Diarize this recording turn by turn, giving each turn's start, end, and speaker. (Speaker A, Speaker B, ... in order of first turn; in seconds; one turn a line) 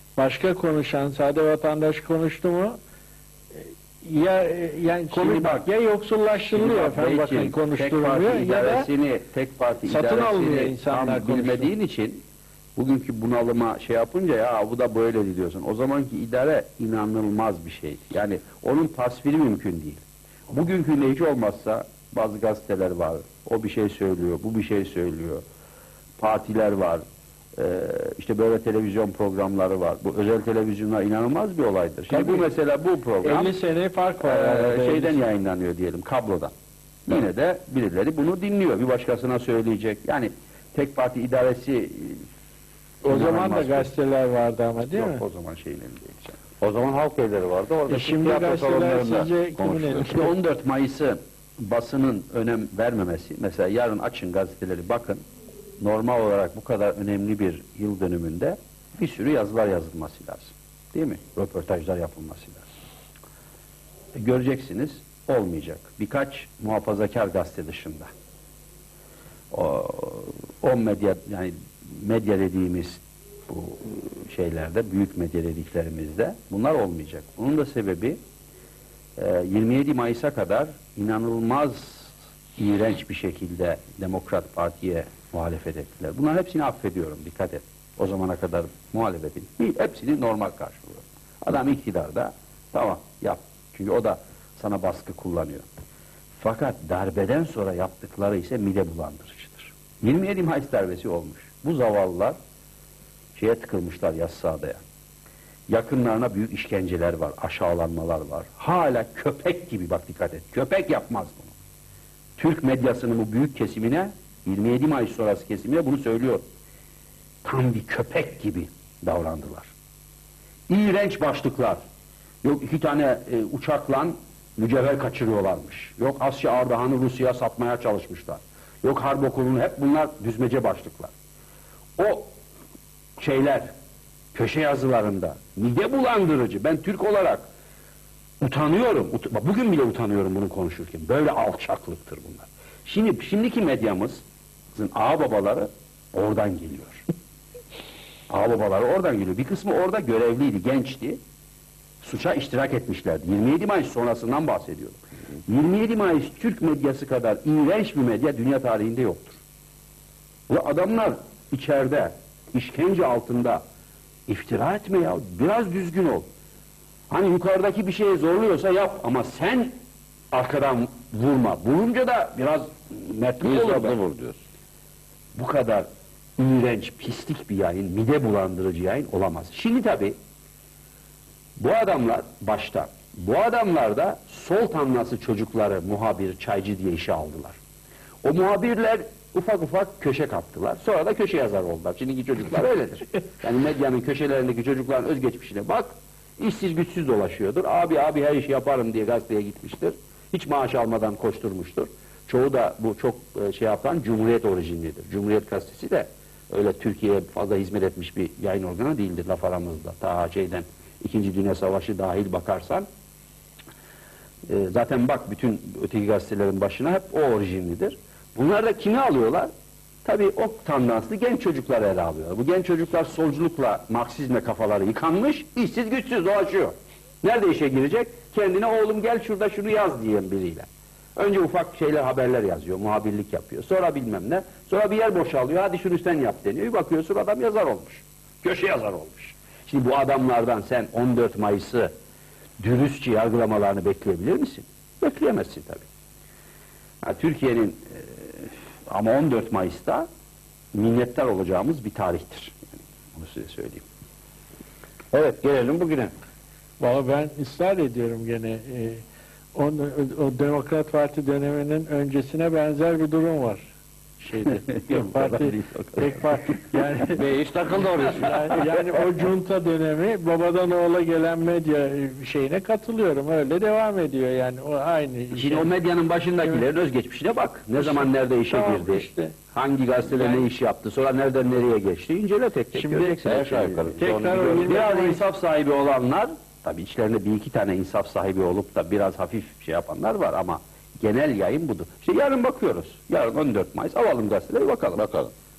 Speaker A: 0.2-2.8
Speaker A: 4.0-8.9
Speaker B: 5.1-5.7
Speaker B: 6.5-12.2
Speaker A: 9.8-11.7
Speaker B: 12.8-25.4
Speaker B: 26.2-27.0
Speaker B: 27.6-33.5
Speaker A: 32.1-32.5
Speaker A: 33.2-35.2
Speaker B: 34.2-36.5
Speaker B: 37.0-42.2
Speaker A: 43.0-45.2
Speaker B: 43.1-43.9
Speaker B: 44.8-46.4
Speaker C: 46.6-50.3
Speaker A: 47.9-50.3
Speaker B: 50.1-55.2
Speaker B: 55.8-62.7
Speaker B: 64.1-68.1
Speaker B: 69.5-78.2
Speaker B: 79.2-95.7
Speaker B: 96.4-102.4
Speaker B: 103.4-104.8
Speaker B: 105.7-111.5
Speaker B: 112.4-116.4
Speaker B: 117.4-119.7
Speaker B: 120.7-121.8
Speaker B: 122.4-131.1
Speaker B: 132.0-132.3
Speaker B: 133.2-133.7
Speaker B: 134.3-137.5
Speaker B: 138.4-147.0
Speaker B: 148.3-151.2
Speaker B: 152.0-159.4
Speaker B: 160.5-163.6
Speaker B: 164.3-166.2
Speaker B: 167.1-169.7
Speaker B: 170.3-174.0
Speaker C: 173.4-174.4
Speaker B: 175.3-175.9
Speaker B: 176.4-180.2
Speaker B: 181.6-187.6
Speaker B: 188.2-212.8
Speaker B: 214.5-219.5
Speaker B: 220.0-241.9
Speaker B: 242.6-245.8
Speaker B: 247.0-250.1
Speaker B: 250.7-253.8
Speaker C: 255.1-256.1
Speaker A: 256.8-259.0
Speaker A: 259.6-263.7
Speaker A: 264.2-267.2
Speaker B: 264.4-266.8
Speaker C: 267.1-268.4
Speaker A: 267.9-275.7
Speaker B: 275.3-295.0
Speaker A: 277.8-279.4
Speaker A: 280.1-280.4
Speaker A: 282.7-283.3
Speaker C: 283.2-284.7
Speaker A: 284.0-285.2
Speaker C: 294.9-295.3